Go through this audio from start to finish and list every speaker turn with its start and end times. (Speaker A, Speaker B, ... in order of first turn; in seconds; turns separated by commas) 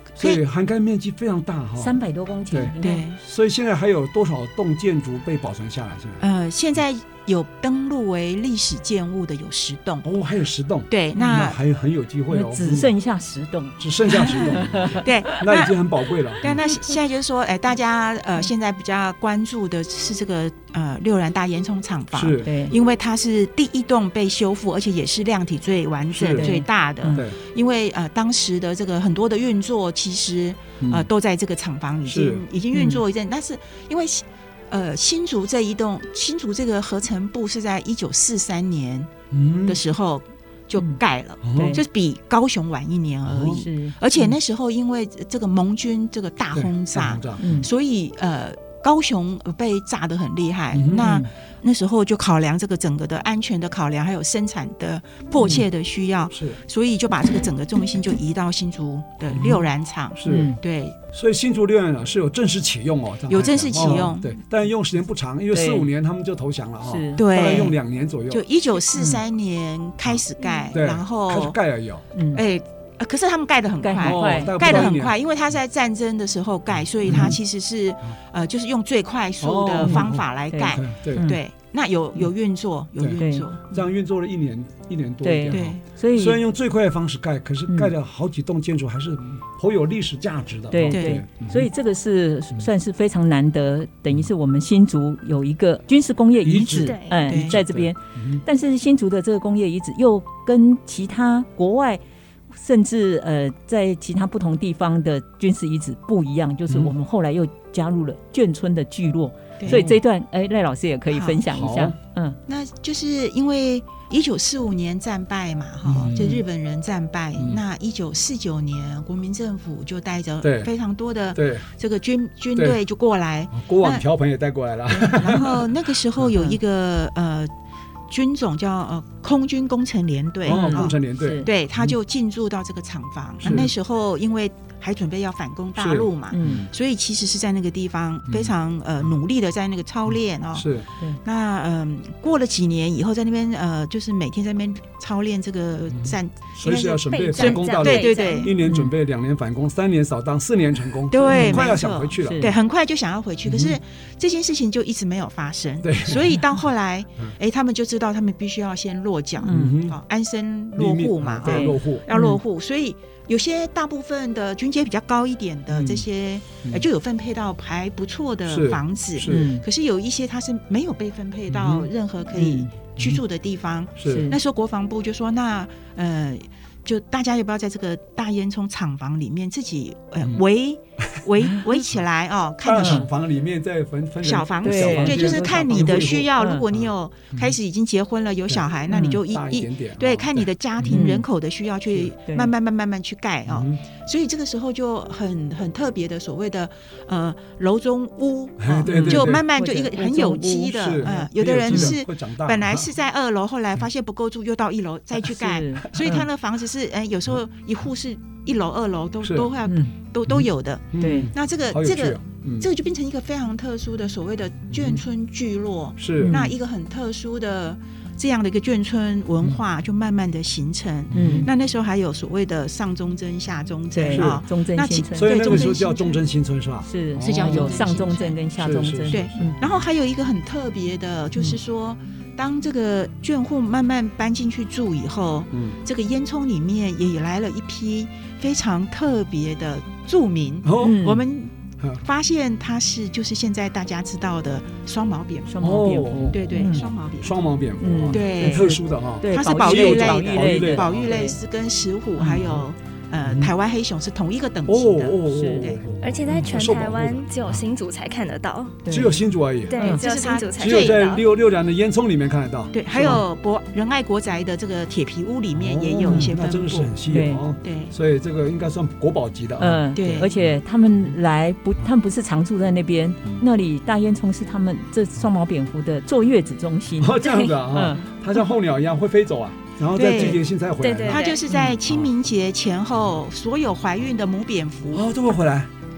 Speaker A: 0.1-0.4, Speaker B: 0.2-1.9, Speaker C: 1.8-3.1, Speaker B: 2.5-6.2, Speaker A: 2.8-3.2, Speaker A: 6.2-10.1, Speaker B: 10.0-12.9, Speaker A: 10.9-11.6, Speaker C: 12.3-15.4, Speaker B: 13.8-16.7, Speaker A: 14.2-15.8, Speaker A: 16.4-39.1, Speaker B: 22.1-22.5, Speaker C: 22.4-22.8, Speaker B: 26.1-26.6, Speaker C: 26.3-27.2, Speaker B: 27.1-27.4, Speaker B: 30.8-31.1, Speaker B: 32.1-32.4, Speaker C: 32.7-33.0, Speaker B: 39.3-39.8, Speaker A: 39.6-61.0, Speaker B: 41.4-41.8, Speaker C: 41.5-41.8, Speaker B: 43.2-43.6, Speaker C: 43.5-44.3, Speaker B: 46.5-47.6, Speaker C: 47.4-47.7, Speaker B: 50.7-51.1, Speaker C: 50.9-51.3, Speaker B: 56.3-56.6, Speaker B: 59.3-60.5, Speaker C: 60.2-60.6, Speaker B: 61.1-68.4, Speaker A: 63.3-64.3, Speaker C: 63.8-64.0, Speaker C: 65.5-65.9, Speaker C: 66.8-67.2, Speaker A: 67.2-67.8, Speaker A: 68.3-71.6, Speaker C: 69.0-69.2, Speaker B: 70.0-72.0, Speaker C: 72.1-72.4, Speaker A: 72.3-83.7, Speaker C: 73.8-74.9, Speaker B: 74.0-75.1, Speaker B: 77.0-77.4, Speaker C: 77.0-77.4, Speaker B: 79.4-81.3, Speaker C: 79.8-81.4, Speaker B: 83.0-91.7, Speaker C: 83.2-83.5, Speaker C: 85.2-86.4, Speaker A: 85.5-85.8, Speaker C: 90.7-102.0, Speaker A: 90.9-91.2, Speaker B: 96.4-98.4, Speaker A: 96.5-97.6, Speaker D: 96.8-97.3, Speaker C: 102.5-112.4, Speaker B: 109.7-110.0, Speaker A: 111.1-111.4, Speaker B: 111.5-112.0, Speaker A: 112.5-124.0, Speaker B: 115.8-116.4, Speaker B: 120.4-120.7, Speaker B: 121.3-121.7, Speaker B: 123.5-126.3, Speaker A: 125.0-127.5, Speaker A: 128.1-140.7, Speaker B: 130.4-132.0, Speaker C: 130.5-131.5, Speaker B: 133.4-133.7, Speaker B: 135.8-136.7, Speaker C: 136.3-136.6, Speaker B: 138.3-138.6, Speaker B: 140.1-140.9, Speaker A: 141.2-146.5, Speaker B: 145.9-152.5, Speaker D: 146.6-148.6, Speaker A: 147.3-148.6, Speaker C: 148.6-148.9, Speaker A: 151.1-183.0, Speaker C: 151.3-152.6, Speaker B: 153.4-153.8, Speaker B: 155.8-156.4, Speaker C: 159.4-159.8, Speaker B: 159.4-160.0, Speaker B: 160.8-162.1, Speaker C: 161.4-162.4, Speaker B: 165.7-166.1, Speaker B: 168.5-169.5, Speaker C: 169.2-169.7, Speaker B: 171.5-171.9, Speaker C: 172.3-172.7, Speaker B: 174.0-174.3, Speaker C: 174.1-174.4, Speaker B: 182.6-187.6, Speaker C: 182.8-183.1, Speaker A: 184.2-226.2, Speaker C: 184.6-186.6, Speaker B: 188.5-191.1, Speaker C: 188.9-189.2, Speaker C: 190.9-191.2, Speaker C: 192.2-192.5, Speaker B: 193.5-193.8, Speaker B: 198.6-202.9, Speaker C: 198.8-200.1, Speaker C: 201.0-202.0, Speaker C: 205.2-206.3, Speaker B: 209.2-209.5, Speaker C: 209.7-209.9, Speaker B: 210.3-212.7, Speaker C: 211.0-211.3, Speaker B: 214.7-215.0, Speaker B: 216.0-216.4, Speaker C: 216.2-216.5, Speaker B: 221.1-221.5, Speaker C: 221.1-221.5, Speaker C: 223.9-225.7, Speaker B: 224.1-224.4, Speaker B: 225.2-227.8, Speaker C: 226.8-229.6, Speaker A: 227.2-228.4, Speaker B: 228.6-229.8, Speaker A: 229.1-245.5, Speaker B: 235.5-235.8, Speaker B: 240.6-241.0, Speaker C: 240.8-241.2, Speaker C: 245.5-246.9, Speaker B: 245.6-251.3, Speaker A: 246.3-247.3, Speaker C: 247.8-251.4, Speaker A: 248.1-255.8, Speaker B: 252.2-252.6, Speaker B: 253.2-253.5, Speaker B: 254.7-257.6, Speaker C: 255.3-255.7, Speaker D: 256.0-258.8, Speaker C: 258.8-259.2, Speaker B: 258.9-259.8, Speaker D: 259.7-261.2, Speaker C: 259.8-260.0, Speaker A: 259.9-261.0, Speaker B: 260.6-263.2, Speaker A: 262.7-266.9, Speaker B: 265.5-270.4, Speaker C: 267.1-267.4, Speaker A: 267.6-267.9, Speaker C: 269.6-278.1, Speaker A: 269.9-270.3, Speaker B: 277.0-281.3, Speaker A: 279.9-280.4, Speaker D: 280.8-281.4, Speaker A: 281.1-285.1, Speaker B: 284.9-285.7